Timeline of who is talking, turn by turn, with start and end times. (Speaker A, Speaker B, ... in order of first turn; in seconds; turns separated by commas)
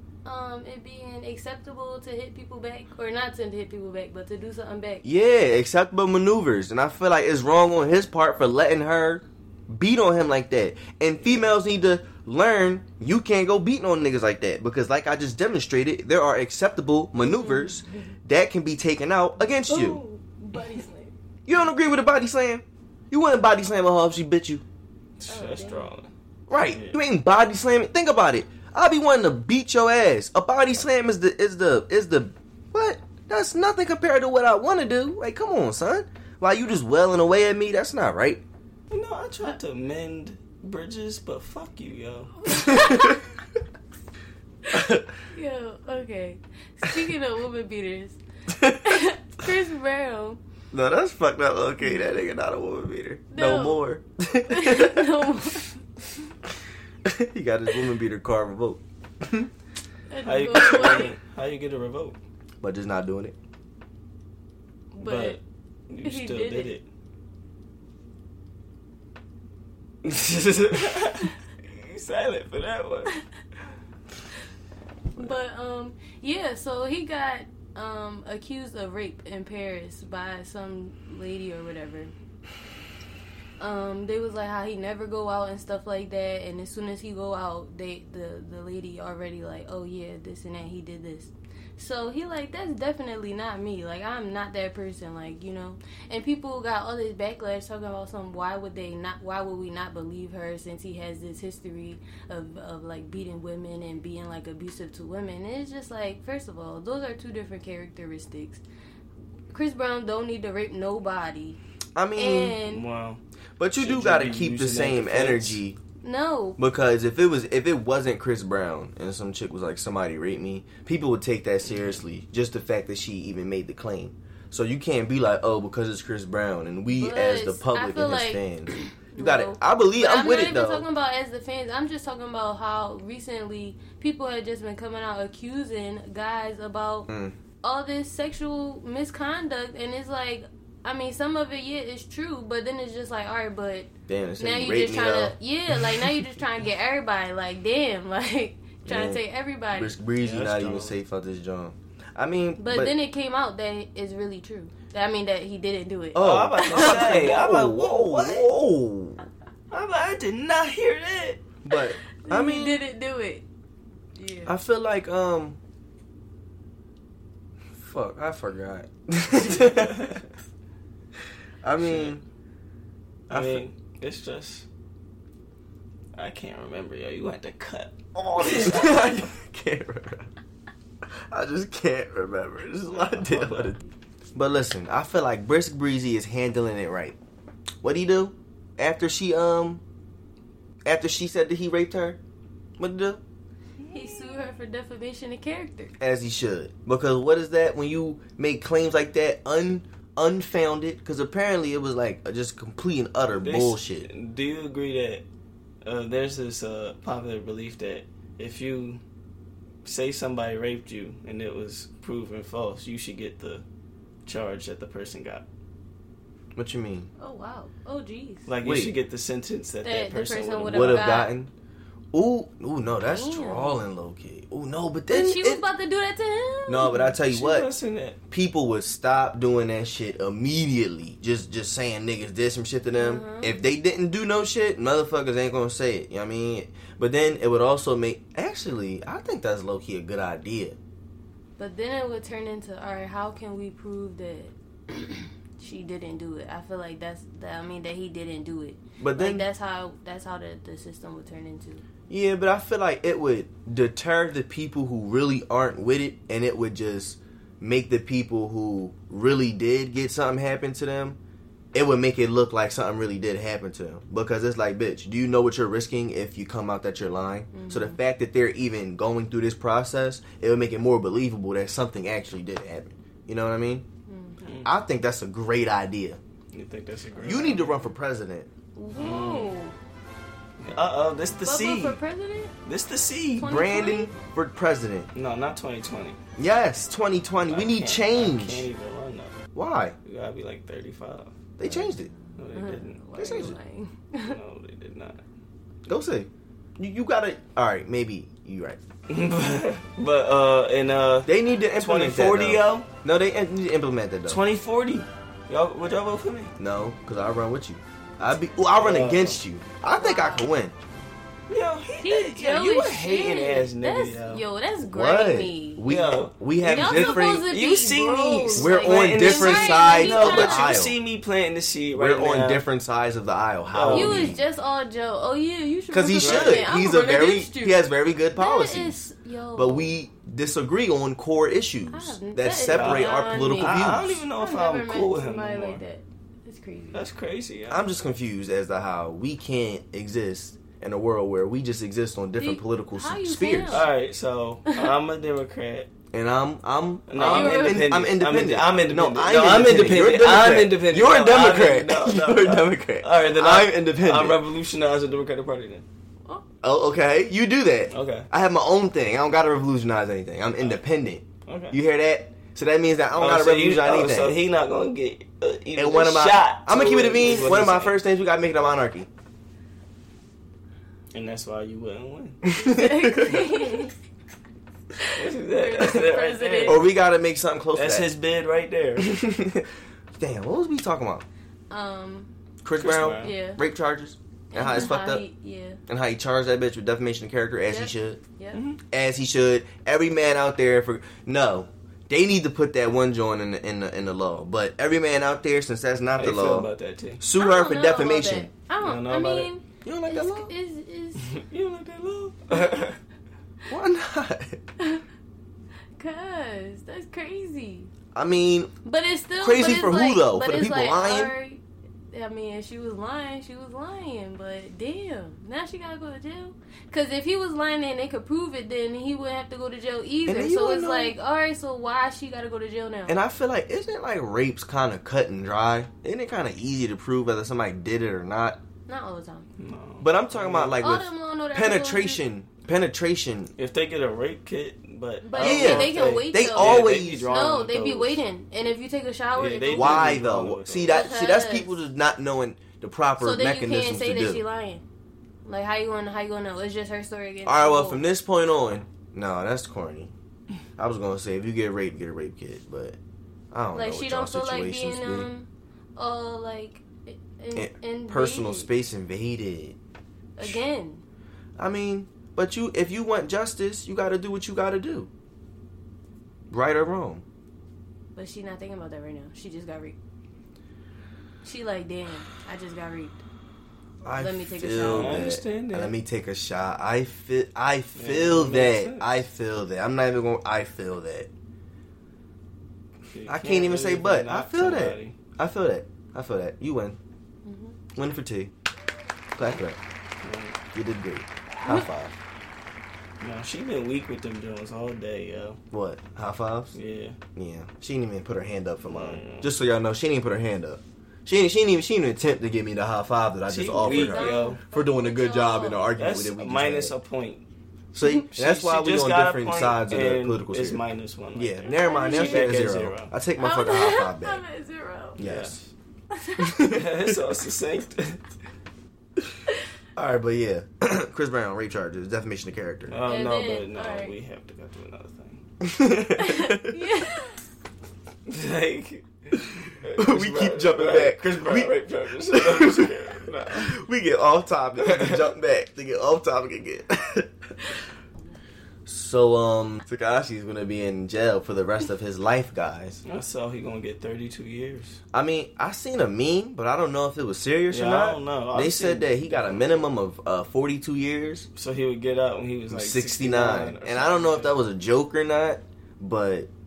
Speaker A: 0.2-5.0, Speaker B: 5.0-20.0, Speaker A: 17.2-18.1, Speaker A: 19.6-21.1, Speaker B: 21.4-24.6, Speaker C: 25.2-26.1, Speaker A: 25.3-25.9, Speaker B: 26.5-38.4, Speaker C: 26.6-27.0, Speaker C: 38.9-42.3, Speaker A: 42.5-43.2, Speaker B: 42.5-43.2, Speaker B: 44.7-45.1, Speaker A: 45.3-50.4, Speaker B: 48.5-48.8, Speaker B: 50.7-55.2, Speaker A: 51.8-52.3, Speaker A: 53.3-53.8, Speaker A: 54.5-55.7, Speaker B: 57.0-59.5, Speaker A: 60.1-61.1, Speaker C: 60.2-62.2, Speaker B: 62.6-63.4, Speaker A: 64.9-65.4, Speaker C: 65.0-66.8, Speaker A: 66.0-66.7, Speaker C: 70.0-73.1, Speaker A: 75.2-82.1, Speaker A: 83.6-108.6, Speaker A: 109.5-111.6, Speaker B: 112.0-112.6, Speaker A: 112.2-112.9, Speaker C: 112.6-113.2, Speaker B: 113.6-115.8, Speaker C: 113.8-115.6, Speaker A: 116.0-116.6, Speaker B: 116.6-130.8, Speaker C: 121.7-122.0, Speaker A: 126.9-137.1, Speaker B: 137.1-137.3, Speaker A: 137.6-150.0, Speaker B: 144.1-145.3, Speaker B: 148.9-149.2, Speaker B: 149.7-152.9, Speaker C: 150.2-150.9, Speaker A: 152.6-157.3, Speaker B: 156.1-159.2, Speaker C: 156.2-158.5, Speaker C: 159.7-161.4, Speaker B: 161.6-162.8, Speaker A: 161.7-163.4, Speaker A: 164.2-164.5, Speaker B: 164.4-165.6, Speaker B: 167.8-170.2, Speaker C: 169.4-170.2, Speaker B: 171.6-172.2, Speaker C: 171.8-172.2, Speaker C: 173.3-174.7, Speaker B: 173.3-173.6, Speaker C: 176.1-179.2, Speaker B: 178.4-180.3, Speaker B: 181.3-183.8, Speaker C: 182.9-183.8, Speaker B: 184.3-187.2, Speaker B: 187.8-189.8, Speaker B: 190.8-192.2, Speaker B: 192.8-193.2, Speaker C: 193.8-194.4, Speaker A: 193.9-195.9, Speaker B: 196.0-204.1, Speaker C: 203.4-205.2, Speaker C: 205.8-209.0, Speaker C: 209.8-213.6, Speaker C: 214.2-215.4, Speaker B: 216.6-217.1, Speaker A: 217.2-218.5, Speaker C: 218.5-221.1, Speaker B: 218.6-218.9, Speaker A: 219.8-221.3, Speaker B: 220.7-221.5, Speaker B: 222.1-225.6, Speaker A: 223.0-223.8, Speaker A: 225.1-227.2, Speaker B: 226.7-227.7, Speaker C: 226.8-228.2, Speaker B: 228.3-240.8, Speaker A: 233.0-233.6, Speaker A: 241.6-251.8, Speaker B: 249.0-249.4, Speaker B: 252.1-261.2, Speaker B: 261.7-273.9, Speaker A: 267.5-268.0, Speaker A: 274.1-274.4, Speaker C: 274.4-274.7, Speaker B: 274.6-276.2, Speaker C: 276.5-277.9, Speaker B: 277.2-278.5, Speaker A: 278.8-279.7, Speaker C: 278.9-279.6, Speaker C: 280.6-282.0, Speaker A: 281.4-282.5, Speaker C: 282.6-283.6, Speaker A: 283.4-284.1, Speaker B: 283.4-285.1, Speaker C: 285.1-286.2, Speaker B: 286.4-288.7, Speaker C: 287.4-289.4, Speaker B: 289.6-289.9, Speaker C: 290.1-293.0, Speaker B: 291.6-292.1, Speaker A: 292.5-294.4, Speaker B: 293.2-293.6, Speaker C: 294.2-295.2, Speaker B: 295.9-298.8, Speaker C: 299.1-302.9, Speaker B: 301.2-304.4, Speaker C: 304.2-306.5, Speaker B: 306.6-310.7, Speaker C: 308.8-309.4, Speaker A: 309.9-310.5, Speaker C: 311.5-314.4, Speaker A: 312.0-315.9, Speaker B: 314.9-317.5, Speaker C: 315.9-322.6, Speaker A: 316.6-320.8, Speaker B: 318.6-320.9, Speaker B: 321.9-324.4, Speaker C: 323.7-324.4, Speaker A: 323.9-329.9, Speaker B: 325.9-329.0, Speaker C: 326.2-326.7, Speaker B: 329.6-334.2, Speaker A: 331.9-337.1, Speaker C: 332.7-335.8, Speaker C: 336.9-337.9, Speaker B: 337.7-343.9, Speaker A: 342.4-343.9, Speaker C: 343.7-345.9, Speaker A: 344.6-344.9, Speaker B: 346.1-354.4, Speaker C: 347.1-355.9, Speaker A: 347.2-347.9, Speaker B: 356.6-364.4, Speaker C: 357.9-358.3, Speaker C: 361.4-361.8, Speaker C: 363.1-368.0, Speaker B: 365.8-369.1, Speaker C: 371.1-372.4, Speaker B: 372.4-373.5, Speaker A: 372.6-373.9, Speaker A: 375.0-376.9, Speaker C: 375.1-376.8, Speaker B: 376.6-378.1, Speaker C: 377.7-379.1, Speaker B: 379.0-379.6, Speaker B: 380.2-381.2, Speaker A: 381.7-382.3, Speaker B: 382.6-385.2, Speaker C: 382.8-383.3, Speaker A: 382.9-383.6, Speaker A: 384.5-385.8, Speaker B: 385.9-388.2, Speaker A: 387.7-388.6, Speaker C: 388.5-388.8, Speaker B: 388.9-398.5, Speaker C: 396.2-397.2, Speaker A: 397.4-401.3, Speaker C: 398.8-399.5, Speaker B: 399.9-400.5, Speaker C: 401.1-403.0, Speaker B: 403.7-404.6, Speaker A: 406.0-407.9, Speaker B: 408.1-408.7, Speaker A: 408.9-423.2, Speaker B: 409.4-411.3, Speaker B: 420.2-421.1, Speaker B: 423.1-428.6, Speaker A: 428.9-429.5, Speaker C: 429.6-430.8, Speaker B: 430.0-433.5, Speaker A: 430.8-432.2, Speaker C: 433.6-438.2, Speaker A: 435.2-440.2, Speaker B: 435.4-437.3, Speaker C: 439.4-441.1, Speaker B: 439.7-444.4, Speaker A: 440.9-441.8, Speaker A: 443.2-444.8, Speaker A: 445.4-448.0, Speaker B: 447.4-450.1, Speaker B: 450.8-453.0, Speaker B: 453.5-455.3, Speaker A: 453.7-458.7, Speaker B: 457.6-459.8, Speaker A: 460.4-461.0, Speaker B: 461.6-465.1, Speaker B: 466.5-467.2, Speaker A: 468.1-469.9, Speaker A: 471.4-473.2, Speaker B: 474.0-481.3, Speaker A: 474.1-475.3, Speaker C: 474.8-475.9, Speaker C: 477.9-479.2, Speaker C: 483.1-485.2, Speaker B: 483.3-487.0, Speaker A: 487.4-487.8, Speaker B: 487.9-488.5, Speaker B: 489.4-489.8, Speaker C: 490.2-490.6, Speaker B: 490.7-492.2, Speaker C: 493.2-495.6, Speaker B: 495.7-496.8, Speaker C: 496.7-497.2, Speaker B: 497.4-506.9, Speaker C: 498.9-499.5, Speaker C: 503.5-504.6, Speaker A: 503.8-505.9, Speaker C: 506.0-507.4, Speaker B: 507.9-514.4, Speaker C: 508.3-513.1, Speaker A: 511.7-512.7, Speaker A: 513.4-515.2, Speaker B: 515.2-515.6, Speaker C: 515.2-515.7, Speaker A: 516.1-516.6, Speaker B: 516.4-517.2, Speaker C: 516.7-518.2, Speaker B: 520.0-523.0, Speaker C: 522.9-525.4, Speaker A: 523.1-524.1, Speaker B: 525.6-526.8, Speaker A: 526.2-527.4, Speaker C: 528.2-533.7, Speaker B: 530.0-537.7, Speaker C: 534.8-535.3, Speaker B: 538.9-543.0, Speaker C: 543.0-545.0, Speaker B: 545.1-551.5, Speaker C: 547.7-549.9, Speaker C: 551.6-554.6, Speaker B: 552.7-556.5